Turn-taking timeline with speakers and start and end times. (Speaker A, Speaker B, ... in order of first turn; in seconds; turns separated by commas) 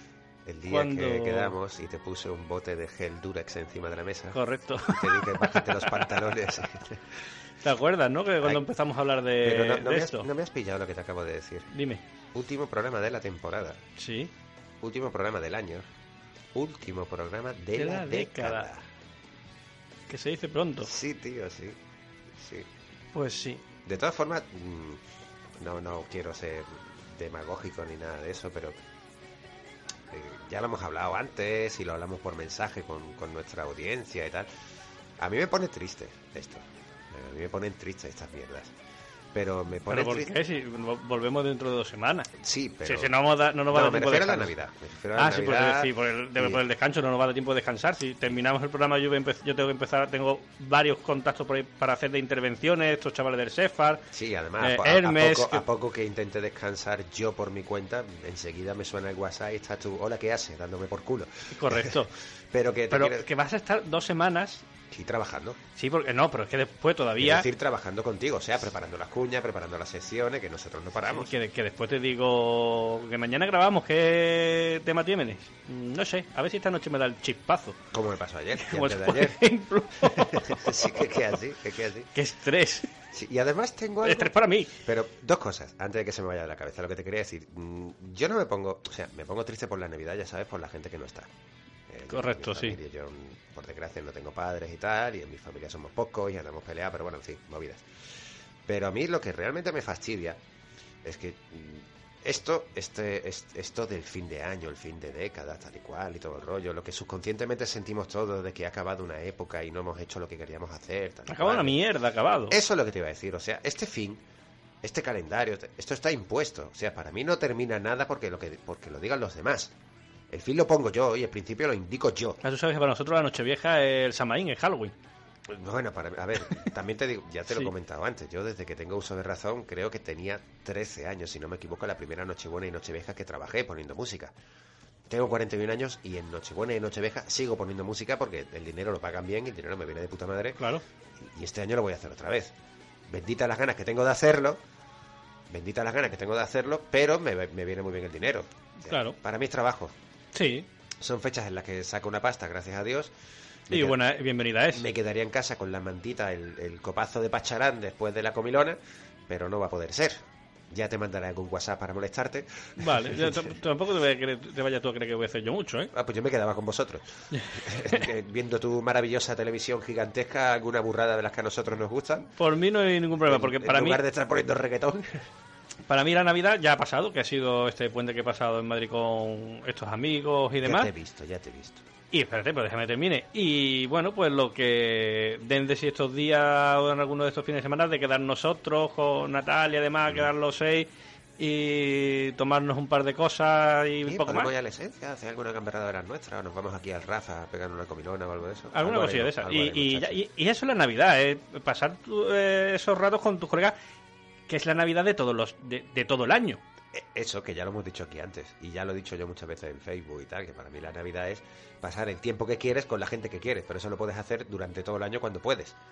Speaker A: 0.5-7.0, Speaker B: 0.7-1.6, Speaker B: 4.3-6.2, Speaker B: 7.6-10.3, Speaker A: 9.4-11.7, Speaker B: 11.7-12.0, Speaker A: 12.3-13.8, Speaker B: 13.9-14.3, Speaker A: 14.8-15.9, Speaker A: 16.5-18.8, Speaker B: 17.8-18.7, Speaker B: 20.1-20.9, Speaker A: 20.8-21.8, Speaker A: 22.3-22.7, Speaker B: 23.1-23.6, Speaker A: 23.8-25.0, Speaker A: 25.6-28.8, Speaker A: 30.1-34.5, Speaker A: 35.2-38.7, Speaker A: 39.3-40.3, Speaker B: 39.9-42.3, Speaker A: 42.4-46.6, Speaker B: 42.8-44.5, Speaker B: 45.1-54.0, Speaker A: 54.1-63.3, Speaker B: 54.6-55.7, Speaker B: 61.5-62.1, Speaker B: 62.9-64.7, Speaker A: 64.9-65.6, Speaker B: 65.8-67.5, Speaker A: 67.2-71.3, Speaker B: 71.1-77.8, Speaker A: 77.9-79.4, Speaker B: 78.5-80.9, Speaker A: 80.0-82.1, Speaker B: 82.1-82.9, Speaker A: 83.1-91.3, Speaker B: 84.0-84.8, Speaker A: 91.9-97.8, Speaker B: 92.1-92.8, Speaker A: 98.7-100.4, Speaker A: 101.0-111.8, Speaker B: 111.3-112.5, Speaker A: 112.5-114.2, Speaker A: 114.8-119.7, Speaker A: 120.3-122.4, Speaker B: 122.4-124.9, Speaker A: 125.5-134.3, Speaker B: 127.5-127.7, Speaker A: 135.1-142.5, Speaker B: 140.6-140.8, Speaker A: 143.1-144.6, Speaker A: 145.5-149.9, Speaker B: 148.8-149.2, Speaker B: 150.3-150.7, Speaker A: 151.0-153.1, Speaker A: 153.7-154.0, Speaker B: 153.7-154.8, Speaker A: 154.7-158.8, Speaker A: 159.3-163.6, Speaker B: 162.8-165.9, Speaker A: 165.9-172.3, Speaker B: 167.3-168.1, Speaker B: 172.2-174.0, Speaker A: 173.1-175.3, Speaker B: 175.9-180.9, Speaker A: 180.6-181.8, Speaker B: 182.1-194.5, Speaker A: 194.0-200.2, Speaker B: 198.7-203.8, Speaker B: 204.5-206.6, Speaker A: 206.9-215.8